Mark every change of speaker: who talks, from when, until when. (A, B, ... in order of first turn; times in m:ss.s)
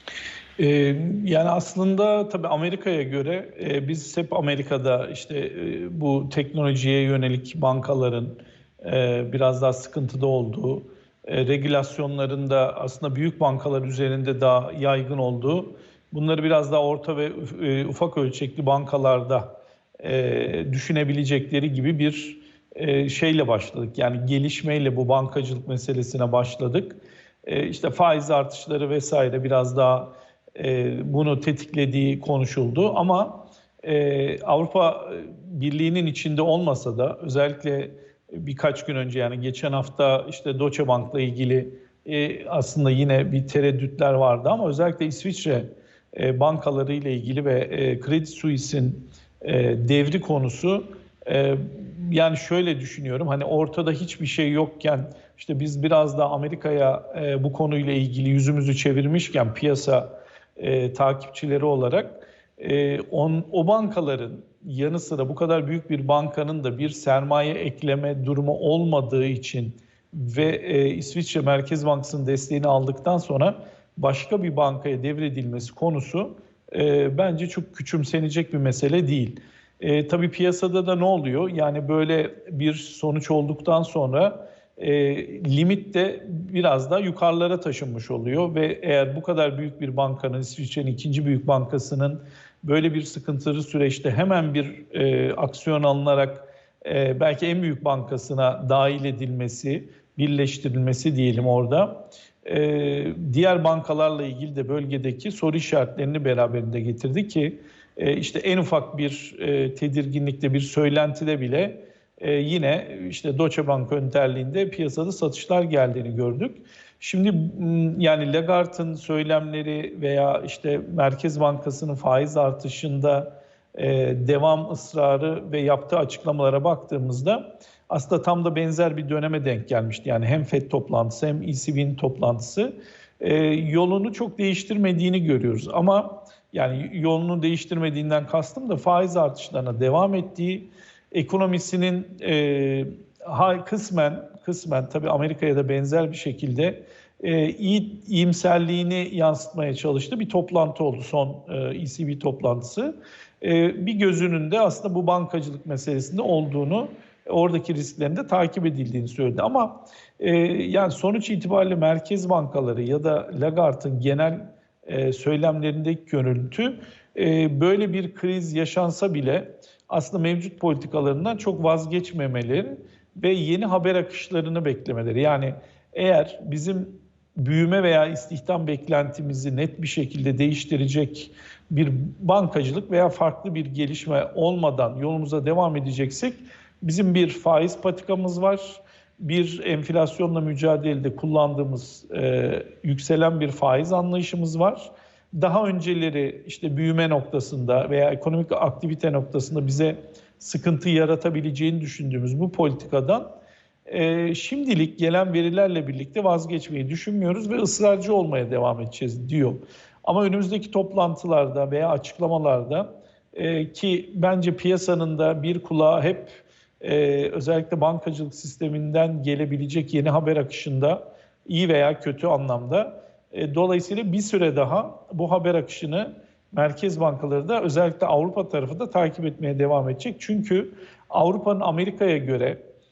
0:00.6-3:52.6 A